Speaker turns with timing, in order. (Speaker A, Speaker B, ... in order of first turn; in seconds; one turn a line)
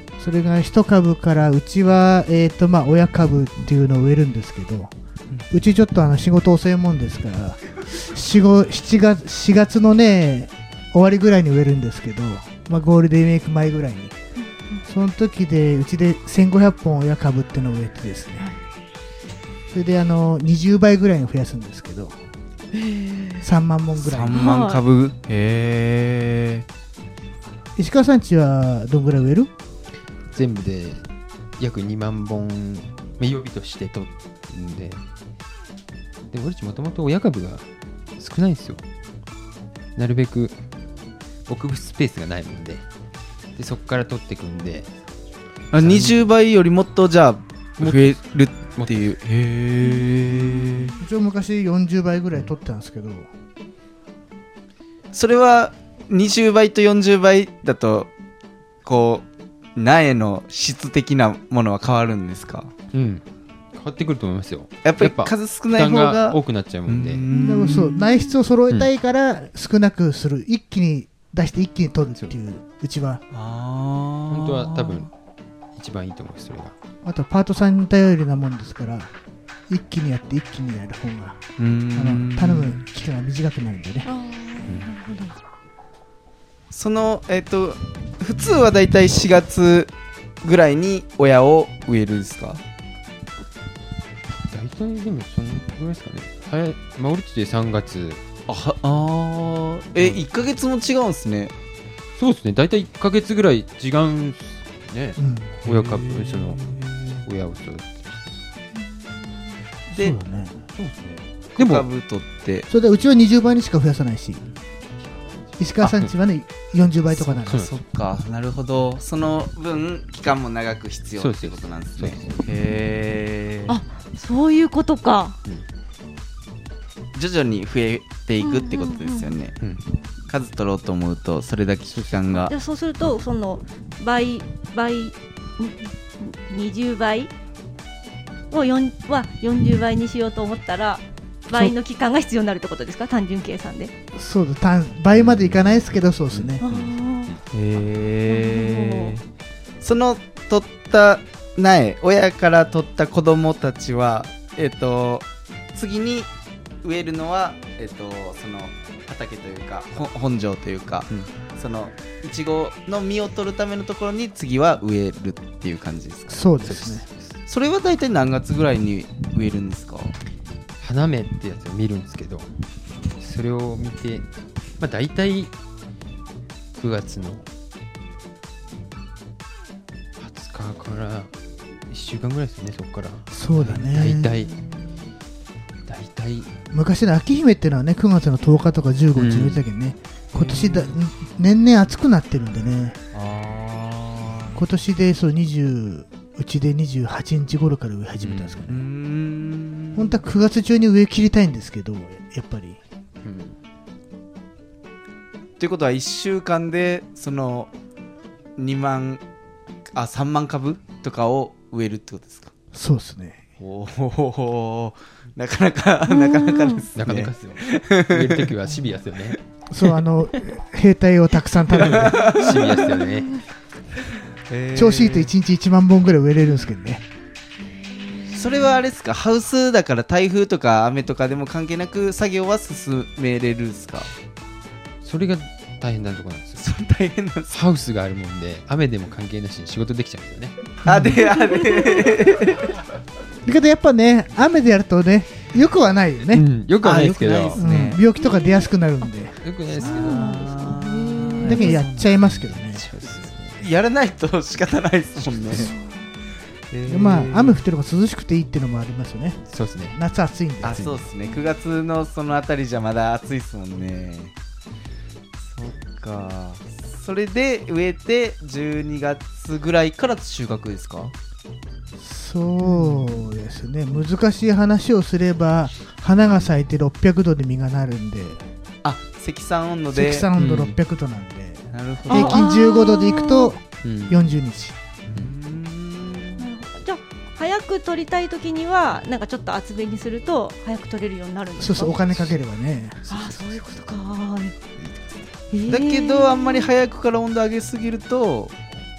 Speaker A: 0.2-4.9
Speaker A: 5.5-14.2
Speaker A: 14.9-18.5
Speaker A: 19.7-22.1
Speaker B: 22.7-23.5
Speaker A: 23.4-24.5
Speaker C: 24.0-26.7
Speaker B: 24.3-24.8
Speaker A: 27.8-29.5
Speaker D: 30.3-31.0
Speaker D: 31.6-35.0
Speaker D: 36.3-37.6
Speaker D: 38.2-38.8
Speaker D: 40.0-40.6
Speaker D: 41.5-42.8
Speaker D: 43.6-44.9
Speaker D: 45.7-46.3
Speaker C: 45.7-51.0
Speaker D: 47.8-49.0
Speaker B: 50.0-50.9
Speaker A: 51.0-53.3
Speaker C: 55.1-58.1
Speaker C: 58.8-62.7
Speaker D: 62.9-67.3
Speaker C: 64.8-68.0
Speaker A: 67.3-73.2
Speaker C: 73.3-75.1
Speaker D: 74.3-75.1
Speaker D: 75.8-76.7
Speaker A: 77.0-79.1
Speaker A: 79.7-81.4
Speaker C: 81.6-82.8
Speaker A: 81.9-84.1
Speaker B: 84.0-85.3
Speaker C: 86.7-92.6
Speaker D: 94.5-98.2
Speaker C: 98.5-101.5
Speaker D: 102.2-106.6
Speaker A: 105.2-105.5
Speaker C: 105.6-107.2
Speaker D: 107.2-108.4
Speaker B: 108.9-109.2
Speaker A: 109.9-110.6
Speaker C: 109.9-110.2
Speaker D: 110.8-111.9
Speaker C: 111.6-112.7
Speaker A: 112.7-114.4
Speaker A: 115.6-117.7
Speaker D: 115.8-116.1
Speaker D: 117.2-117.8
Speaker C: 117.5-123.8
Speaker D: 121.2-122.5
Speaker B: 123.7-125.4
Speaker C: 127.1-129.6
Speaker B: 128.4-129.4
Speaker C: 130.3-132.5
Speaker D: 131.9-132.2
Speaker B: 132.5-137.3
Speaker B: 138.5-143.9
Speaker A: 144.2-146.6
Speaker D: 145.1-147.4
Speaker B: 146.6-147.4
Speaker C: 147.5-149.2
Speaker B: 148.3-149.2
Speaker C: 149.8-156.3
Speaker C: 156.8-166.5
Speaker A: 166.3-167.1
Speaker D: 166.7-167.3
Speaker C: 167.5-170.2
Speaker D: 170.8-172.5
Speaker D: 173.2-174.3
Speaker D: 174.8-175.5
Speaker D: 176.8-177.5
Speaker D: 180.2-181.3
Speaker D: 181.9-184.6
Speaker A: 183.3-184.3
Speaker D: 185.9-186.5
Speaker A: 186.7-193.0
Speaker D: 189.2-189.6
Speaker C: 190.3-191.0
Speaker C: 193.1-194.6
Speaker A: 194.6-198.8
Speaker D: 198.2-198.7
Speaker C: 198.7-200.2
Speaker A: 199.9-202.8
Speaker D: 203.2-203.6
Speaker C: 205.6-207.7
Speaker C: 208.6-209.2
Speaker C: 209.9-212.5
Speaker A: 212.7-213.4
Speaker C: 213.6-218.8
Speaker B: 216.1-216.9
Speaker D: 217.0-219.4
Speaker A: 219.7-222.3
Speaker C: 221.8-222.8
Speaker D: 221.8-223.4
Speaker B: 222.2-223.4
Speaker C: 224.5-225.3
Speaker A: 224.8-227.0
Speaker B: 227.8-228.7
Speaker C: 228.3-234.1
Speaker D: 235.0-236.7
Speaker C: 236.6-237.6
Speaker D: 237.5-241.1
Speaker C: 240.8-242.8
Speaker B: 241.5-242.1
Speaker A: 243.5-246.5
Speaker D: 246.3-247.6
Speaker C: 246.8-248.0
Speaker A: 247.6-249.4
Speaker B: 248.2-248.7
Speaker D: 249.4-250.8
Speaker B: 249.8-251.7
Speaker C: 249.8-252.1
Speaker A: 251.4-252.9
Speaker D: 251.6-253.6
Speaker C: 252.9-255.7
Speaker B: 255.6-256.1
Speaker C: 256.7-257.6
Speaker A: 256.9-260.9
Speaker D: 259.5-260.0
Speaker C: 260.6-264.3
Speaker D: 260.7-261.0
Speaker C: 265.4-271.1
Speaker A: 272.0-278.4
Speaker C: 272.6-273.2
Speaker C: 278.8-280.3
Speaker A: 279.9-284.8
Speaker D: 280.4-280.8
Speaker C: 281.7-282.5
Speaker B: 282.1-283.5
Speaker D: 283.8-284.2
Speaker C: 285.1-286.5
Speaker B: 286.4-292.2
Speaker A: 291.6-293.0
Speaker D: 293.1-293.7
Speaker B: 293.1-294.6
Speaker D: 294.8-295.2
Speaker B: 295.5-296.7
Speaker C: 295.7-298.6